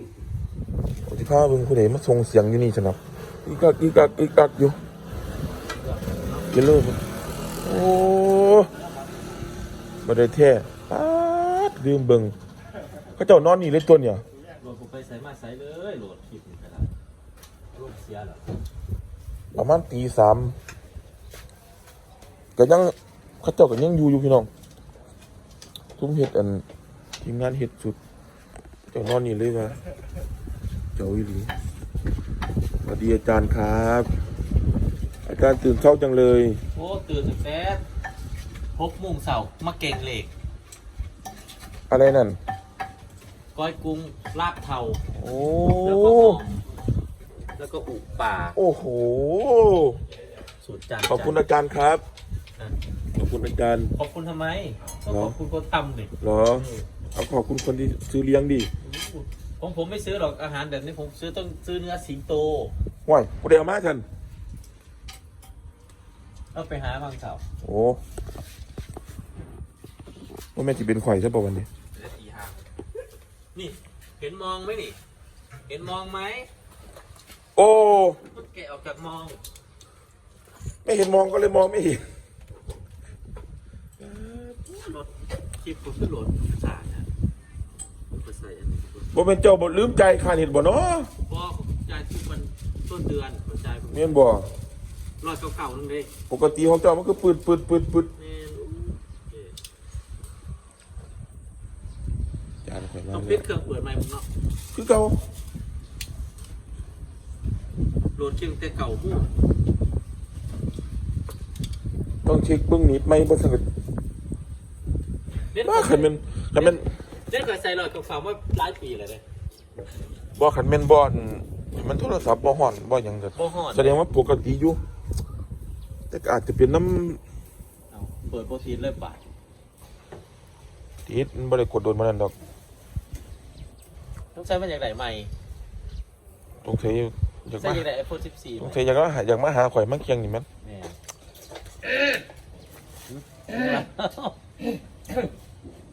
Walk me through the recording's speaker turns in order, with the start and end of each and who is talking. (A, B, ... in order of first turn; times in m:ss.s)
0:01.0-0:04.8 A
0:05.8-0:06.5 B
0:06.5-0:07.0 A
0:07.6-0:08.7 A
0:10.0-0:12.3 A
0:13.2-0:14.2 A
0:14.6-0:16.9 B
0:17.7-0:18.4 B
0:19.5-0:20.6 A
0:22.6-0:24.5 A
0:26.0-0:26.6 A
0:27.2-0:28.0 A
0:28.9-0:29.8 A
0:31.0-0:31.5 A
0:32.8-0:34.1 A
0:35.2-0:36.6 A
0:36.7-0:37.8 B
0:38.8-0:40.3 B
0:41.9-0:42.4 A
0:43.5-0:45.0 B
0:45.1-0:46.4 A
0:45.8-0:46.6 B
0:47.6-0:48.6 B
0:48.6-0:50.0 A
0:50.6-0:51.4 B
0:51.0-0:52.0 A
0:53.1-0:53.9 A
0:53.9-0:56.8 B
0:55.1-0:55.4 A
0:56.2-0:58.7 A
0:58.8-1:02.7 B
1:03.0-1:04.0 A
1:06.5-1:07.4 B
1:07.6-1:08.0 A
1:10.5-1:11.7 A
1:11.9-1:12.6 B
1:13.5-1:15.0 B
1:15.7-1:16.5 B
1:17.6-1:18.2 A
1:18.3-1:19.4 B
1:20.8-1:22.1 A
1:24.0-1:24.7 A
1:24.7-1:27.1 B
1:28.1-1:29.1 B
1:29.1-1:31.1 A
1:31.3-1:34.2 B
1:33.9-1:34.5 A
1:35.2-1:36.1 B
1:36.3-1:38.1 A
1:38.2-1:39.5 B
1:42.6-1:43.5 A
1:43.1-1:44.2 B
1:44.7-1:45.2 A
1:48.2-1:49.3 B
1:52.2-1:53.6 A
1:55.5-1:59.2 B
1:55.6-1:56.9 A
2:00.4-2:04.8 A
2:03.4-2:04.0 B
2:06.1-2:07.2 A
2:07.9-2:09.2 B
2:11.1-2:12.3 A
2:14.3-2:15.3 B
2:16.6-2:17.8 A
2:17.6-2:18.8 B
2:18.6-2:20.5 A
2:20.6-2:21.0 B
2:23.1-2:24.4 B